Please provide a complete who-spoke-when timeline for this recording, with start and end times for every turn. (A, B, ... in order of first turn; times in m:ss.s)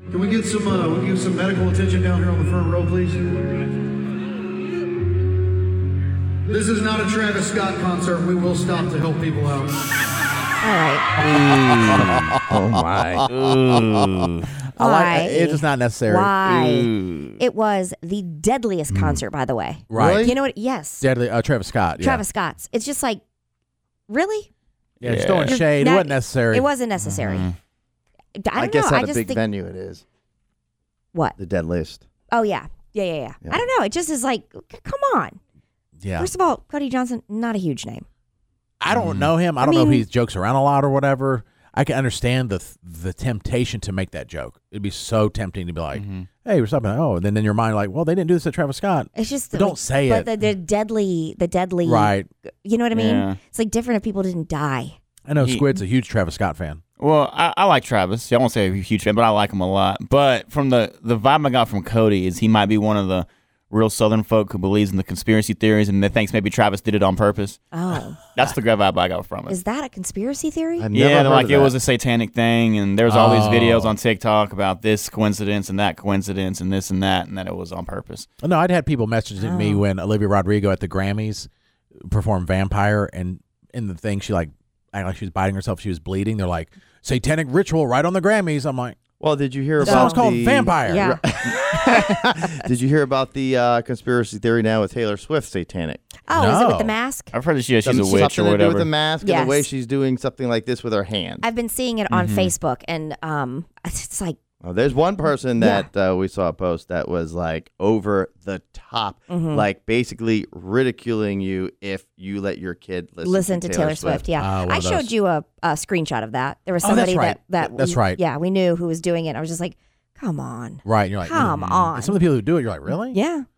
0:00.1-0:02.9 A
0:00.3-0:03.2 B
0:06.5-0:07.8 B
0:06.6-0:09.7 A
0:10.6-0:11.1 C
0:11.2-0:14.5 D
0:11.9-0:12.6 E
0:12.5-0:12.9 B
0:14.8-0:21.0 C
0:14.8-0:16.3 E
0:16.4-0:17.4 D
0:18.9-0:19.2 E
0:19.9-0:20.3 E
0:19.9-0:20.3 B
0:21.0-0:22.2 E
0:22.0-0:23.2 C
0:24.1-0:24.5 C
0:25.0-0:25.6 D
0:25.0-0:26.7 E
0:25.4-0:27.5 C
0:27.0-0:27.5 D
0:28.4-0:29.4 C
0:28.6-0:30.0 B
0:31.4-0:32.0 B
0:32.3-0:35.4 C
0:36.0-0:36.3 E
0:36.2-0:38.0 C
0:38.8-0:50.3 E
0:38.9-0:39.3 D
0:39.6-0:40.0 C
0:45.9-0:46.3 D
0:49.1-0:52.1 C
0:51.8-0:52.3 E
0:52.6-0:55.0 C
0:52.9-0:53.4 D
0:55.3-0:56.8 E
0:55.4-0:55.6 D
0:57.0-1:07.6 D
1:07.7-1:08.3 C
1:08.3-1:09.6 D
1:09.5-1:10.9 C
1:10.8-1:11.8 B
1:10.9-1:18.3 D
1:13.1-1:13.9 E
1:18.4-1:21.5 E
1:19.4-1:19.8 C
1:22.1-1:29.0 E
1:29.2-1:36.0 B
1:29.8-1:31.1 E
1:29.8-1:30.2 C
1:30.8-1:31.2 C
1:36.3-1:37.3 C
1:36.3-1:36.9 E
1:37.3-1:38.9 D
1:37.8-1:41.5 B
1:39.2-1:39.7 C
1:41.4-1:44.4 C
1:42.1-1:42.5 D
1:44.6-1:54.2 B
1:45.6-1:45.9 C
1:49.3-1:49.6 C
1:53.2-2:02.2 C
1:54.4-1:55.1 E
1:56.8-1:58.2 E
2:00.8-2:03.2 E
2:01.4-2:01.8 D
2:02.9-2:03.4 C